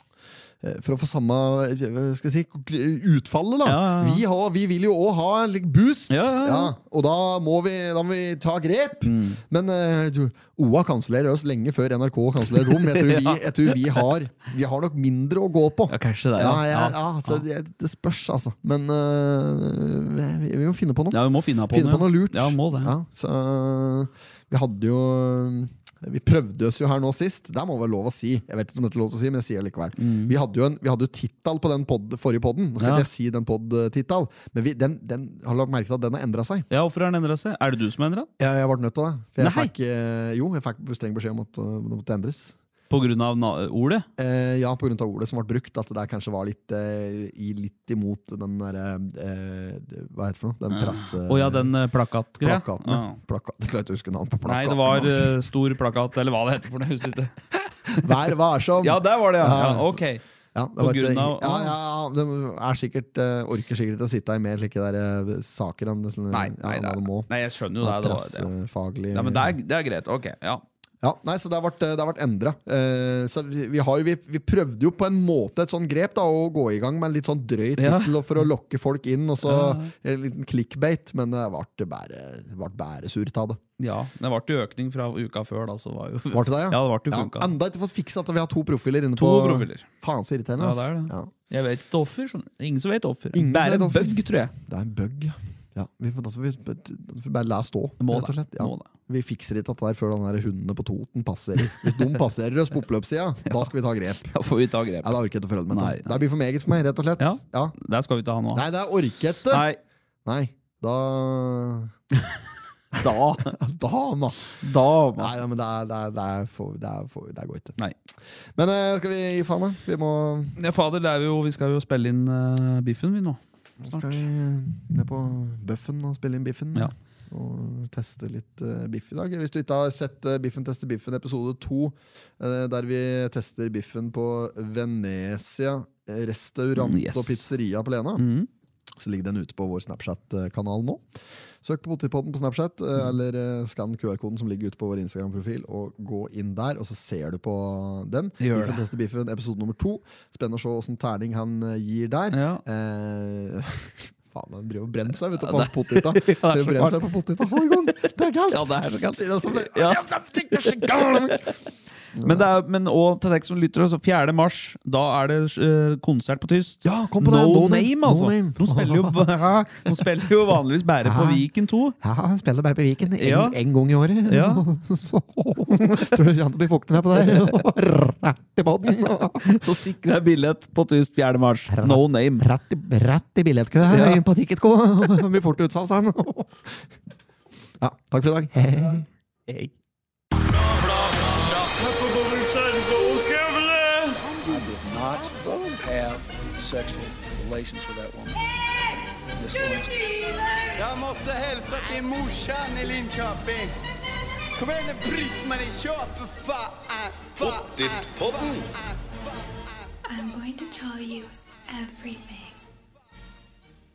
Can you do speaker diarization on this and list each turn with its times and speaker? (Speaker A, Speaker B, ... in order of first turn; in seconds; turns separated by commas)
Speaker A: 0.6-36.7, Speaker B: 3.6-4.2, Speaker B: 6.1-6.8, Speaker B: 9.0-9.4, Speaker B: 12.6-14.1, Speaker B: 15.9-17.4, Speaker B: 21.1-22.9, Speaker B: 30.0-30.3, Speaker B: 32.8-33.1, Speaker B: 36.7-38.3, Speaker A: 38.4-42.5, Speaker B: 39.4-39.7, Speaker B: 42.9-44.0, Speaker A: 44.2-51.7, Speaker B: 50.7-53.2, Speaker A: 52.4-55.4, Speaker B: 54.4-57.3, Speaker A: 57.9-60.0, Speaker B: 58.8-60.2, Speaker A: 60.5-67.3, Speaker B: 60.8-61.7, Speaker B: 66.3-68.5, Speaker A: 67.8-69.5, Speaker B: 69.1-70.6, Speaker A: 71.0-83.6, Speaker B: 77.8-78.4, Speaker B: 79.4-79.9, Speaker B: 83.8-87.5, Speaker A: 86.3-91.3, Speaker B: 89.2-89.8, Speaker B: 90.6-94.5, Speaker A: 93.3-104.3, Speaker B: 98.0-98.9, Speaker B: 101.8-102.1, Speaker B: 103.5-103.7, Speaker B: 104.3-105.1, Speaker A: 105.0-107.8, Speaker B: 105.7-106.2, Speaker B: 107.2-108.6, Speaker A: 108.5-109.7, Speaker B: 109.5-109.8, Speaker A: 110.2-111.9, Speaker A: 112.9-114.6, Speaker B: 113.0-113.5, Speaker B: 114.6-115.3, Speaker A: 115.2-117.8, Speaker A: 118.5-120.6, Speaker B: 120.6-123.4, Speaker A: 123.8-138.2, Speaker B: 123.9-124.2, Speaker B: 136.8-137.4, Speaker B: 138.2-138.5, Speaker A: 139.0-141.0, Speaker A: 141.6-161.5, Speaker B: 148.4-148.8, Speaker B: 152.3-152.6, Speaker B: 155.4-157.0, Speaker B: 158.5-161.5, Speaker A: 162.1-162.4, Speaker B: 162.2-171.9, Speaker A: 166.8-169.2, Speaker A: 171.0-171.4, Speaker A: 172.0-179.6, Speaker B: 173.2-173.6, Speaker B: 174.3-174.6, Speaker B: 177.2-177.5, Speaker B: 179.4-182.5, Speaker A: 181.7-186.8, Speaker B: 183.8-184.2, Speaker A: 187.8-189.1, Speaker B: 189.5-189.7, Speaker C: 190.6-198.4, Speaker A: 194.4-194.7, Speaker A: 195.3-195.8, Speaker C: 199.4-200.7, Speaker D: 200.8-203.7, Speaker D: 204.6-208.9, Speaker E: 210.1-212.6